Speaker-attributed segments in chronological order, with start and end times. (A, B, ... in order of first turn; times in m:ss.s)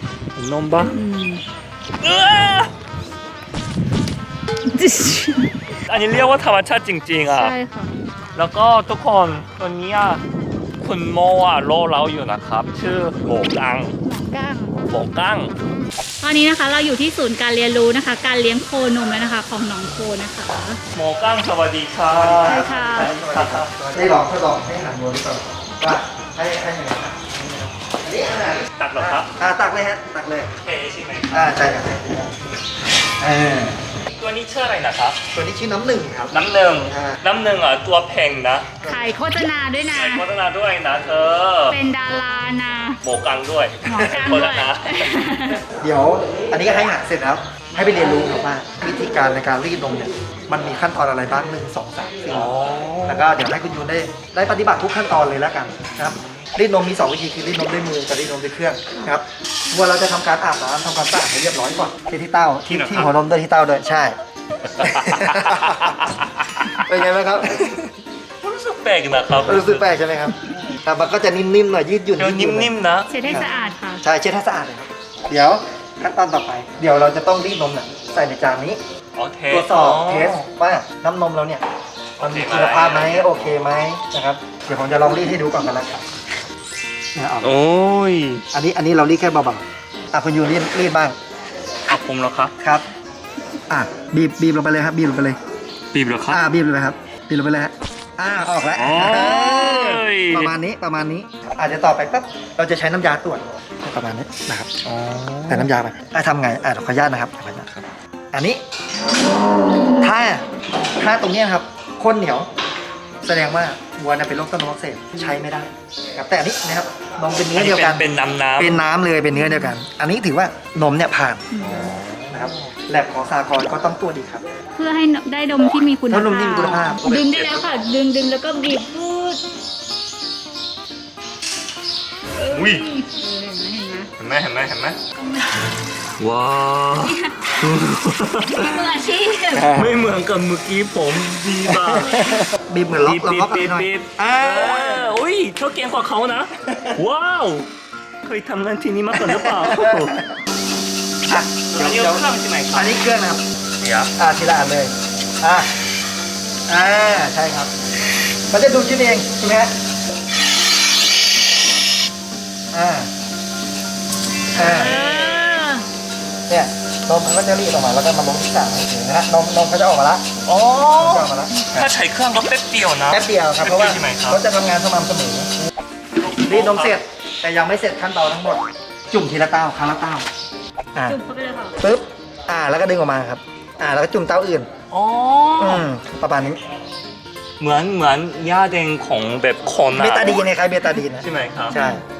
0:00.4-0:01.0 A
0:00.8-0:01.4 B
0:02.0-0:02.7 A
0:04.7-0:05.5 B
0:05.8-0:07.5 A
0:07.3-0:08.0 B
0:08.4-0:10.2 A
0:10.8-0:14.0 A
0:14.0-0:14.8 B
0:14.8-0:15.5 A
0:16.2-0:20.8 B
0:20.9-0:23.7 A
0:22.1-0:30.5 C
0:22.4-0:23.1 B
0:28.7-0:29.3 A
0:30.6-0:31.4 A
0:31.3-0:32.4 C
0:33.2-0:33.8 C
0:34.1-0:35.2 A
0:35.3-0:36.3 C
0:36.3-0:38.8 A
0:36.9-0:37.2 C
0:38.8-0:40.2 B
0:39.9-0:41.8 A
0:41.7-0:43.0 B
0:43.0-0:45.2 A
0:43.8-0:45.6 B
0:45.8-0:52.5 C
0:52.3-0:53.4 A
0:53.1-1:04.2 C
0:56.0-0:56.4 A
1:02.7-1:03.1 A
1:04.6-1:06.9 A
1:04.8-1:06.1 C
1:06.7-1:07.9 C
1:08.4-1:10.0 A
1:09.4-1:12.7 C
1:10.5-1:10.8 A
1:12.2-1:13.2 A
1:13.1-1:14.0 B
1:13.2-1:13.5 C
1:14.0-1:18.8 C
1:19.2-1:20.5 A
1:19.5-1:21.6 C
1:22.2-1:23.4 A
1:22.2-1:26.0 C
1:27.2-1:27.6 C
1:27.4-1:28.4 A
1:28.5-1:31.2 C
1:31.9-1:32.5 A
1:32.6-1:32.8 C
1:33.7-1:35.4 C
1:35.9-1:36.4 A
1:36.3-1:44.7 C
1:38.8-1:40.5 A
1:44.8-1:45.7 A
1:45.5-1:48.6 C
1:50.0-1:52.5 C
1:53.2-2:04.4 C
1:57.5-1:58.8 A
1:59.3-1:59.8 B
2:01.5-2:01.9 B
2:01.6-2:02.7 A
2:04.8-2:09.4 B
2:06.1-2:07.0 C
2:07.0-2:07.8 A
2:12.4-2:14.1 B
2:12.5-2:12.9 A
2:14.2-2:15.0 A
2:15.2-2:15.6 B
2:16.2-2:19.0 A
2:17.0-2:17.6 B
2:18.5-2:19.8 B
2:19.5-2:22.4 A
2:19.6-2:20.0 C
2:21.6-2:25.2 C
2:23.0-2:27.7 A
2:28.2-2:30.2 A
2:29.1-2:30.3 C
2:31.3-2:33.4 C
2:31.7-2:33.0 A
2:33.8-2:34.1 A
2:34.2-2:35.7 C
2:36.7-2:37.7 C
2:38.5-2:39.7 C
2:42.7-2:43.1 C
2:44.5-2:45.0 C
2:44.5-2:45.7 A
2:44.6-2:45.9 B
2:46.5-2:50.3 C
2:50.4-2:54.4 A
2:51.0-2:51.9 C
2:53.1-2:55.5 C
2:56.2-2:57.0 A
2:56.4-3:00.3 C
3:01.1-3:01.8 B
3:01.8-3:04.7 C
3:04.9-3:05.9 A
3:05.6-3:06.6 C
3:07.6-3:10.4 A
3:10.0-3:12.0 C
3:11.2-3:11.8 A
3:11.7-3:12.0 B